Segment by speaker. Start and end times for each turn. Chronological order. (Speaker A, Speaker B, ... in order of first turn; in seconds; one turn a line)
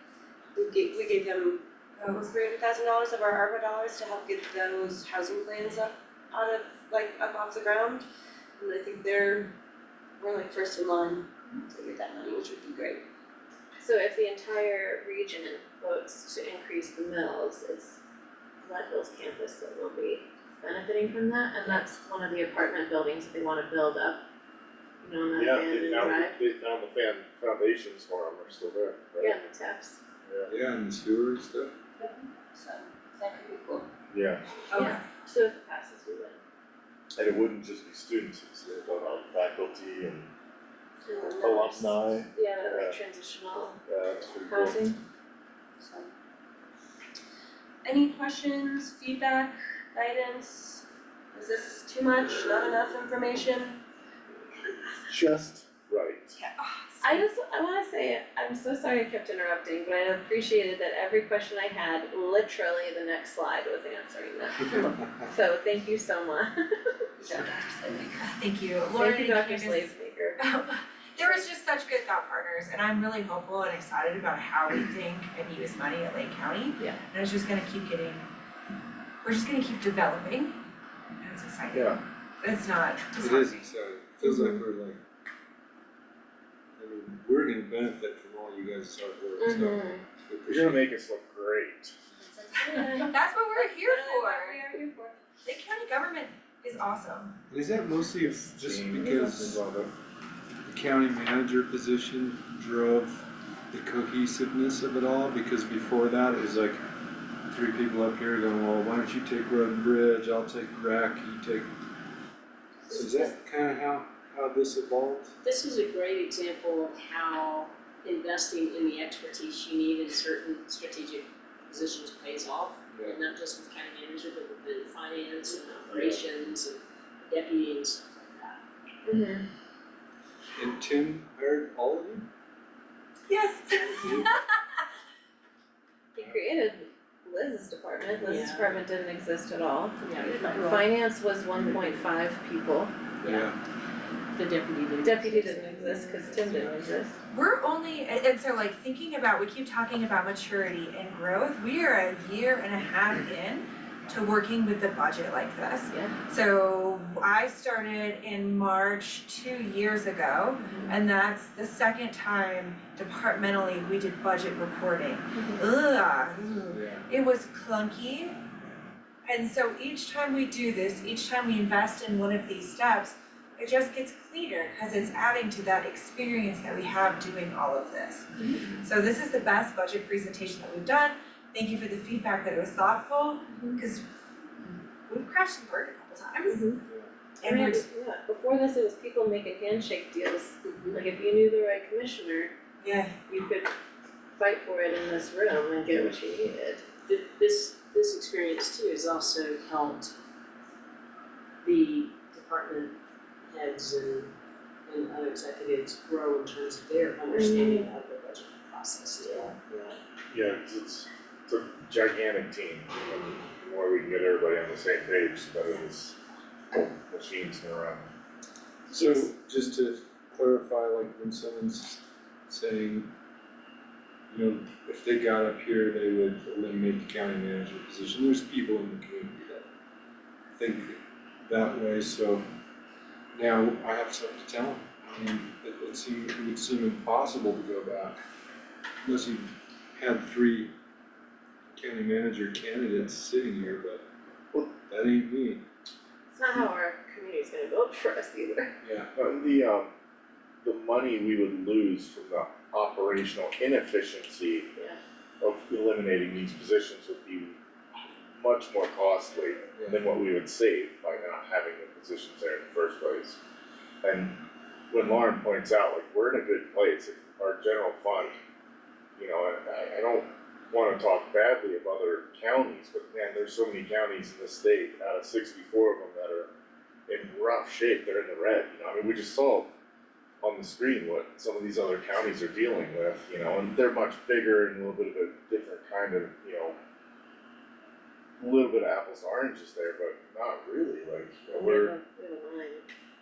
Speaker A: 0.5-8.0
Speaker A: 8.6-9.5
Speaker A: 10.2-13.0
Speaker B: 13.8-18.0
Speaker B: 18.6-24.2
Speaker B: 25.0-26.3
Speaker C: 25.3-29.4
Speaker B: 29.2-30.0
Speaker C: 30.2-30.5
Speaker D: 30.5-31.7
Speaker A: 32.0-33.9
Speaker C: 34.1-34.4
Speaker B: 34.7-36.4
Speaker C: 37.1-40.3
Speaker A: 41.1-41.9
Speaker C: 41.4-43.0
Speaker B: 42.3-43.8
Speaker C: 43.9-44.8
Speaker B: 44.5-45.0
Speaker A: 47.8-50.8
Speaker A: 51.3-53.8
Speaker C: 55.1-56.4
Speaker A: 56.4-57.2
Speaker B: 57.0-67.5
Speaker E: 67.9-78.3
Speaker B: 69.0-70.4
Speaker E: 79.2-80.6
Speaker E: 81.2-83.7
Speaker C: 81.7-82.0
Speaker D: 83.2-85.0
Speaker B: 84.2-84.5
Speaker D: 86.8-90.9
Speaker B: 89.4-90.0
Speaker C: 90.5-91.9
Speaker B: 92.3-95.2
Speaker E: 92.5-94.6
Speaker A: 93.8-94.3
Speaker E: 95.4-97.3
Speaker D: 97.5-99.9
Speaker B: 98.9-99.5
Speaker D: 100.6-106.8
Speaker D: 107.5-111.7
Speaker B: 112.9-113.3
Speaker D: 112.9-115.3
Speaker F: 115.4-128.6
Speaker D: 122.9-123.2
Speaker B: 129.0-129.5
Speaker D: 130.5-132.3
Speaker E: 133.3-134.4
Speaker D: 134.0-134.3
Speaker B: 136.1-140.0
Speaker D: 136.2-136.4
Speaker F: 138.2-138.8
Speaker F: 140.0-140.8
Speaker A: 140.5-140.8
Speaker B: 140.6-142.9
Speaker F: 141.6-142.1
Speaker D: 143.2-143.6
Speaker F: 143.2-143.5
Speaker F: 144.3-146.8
Speaker B: 145.0-147.2
Speaker E: 147.3-168.3
Speaker B: 155.9-156.2
Speaker B: 160.6-161.0
Speaker B: 165.4-165.6
Speaker D: 166.7-167.1
Speaker E: 169.2-178.3
Speaker B: 178.4-178.8
Speaker E: 178.8-184.0
Speaker B: 183.5-183.8
Speaker E: 185.1-186.7
Speaker B: 186.5-186.8
Speaker D: 186.8-187.1
Speaker E: 187.4-187.8
Speaker B: 187.4-192.5
Speaker F: 190.7-191.0
Speaker E: 192.8-193.2
Speaker B: 193.2-193.7
Speaker B: 194.4-196.8
Speaker F: 197.1-200.1
Speaker F: 201.6-204.3
Speaker F: 204.9-209.5
Speaker B: 207.3-207.9
Speaker C: 210.3-216.2
Speaker C: 216.7-218.0
Speaker D: 218.9-223.1
Speaker D: 224.3-229.7
Speaker D: 230.6-232.4
Speaker D: 233.3-238.2
Speaker D: 239.0-240.7
Speaker D: 241.7-244.1
Speaker D: 244.7-245.7
Speaker B: 246.3-248.7
Speaker D: 248.8-249.1
Speaker C: 249.2-249.9
Speaker C: 250.6-254.7
Speaker C: 255.4-263.4
Speaker D: 259.8-260.1
Speaker C: 264.0-264.4
Speaker C: 264.9-268.4
Speaker C: 269.1-276.5
Speaker C: 277.1-279.7
Speaker C: 280.4-286.8
Speaker C: 288.4-291.9
Speaker B: 291.5-292.9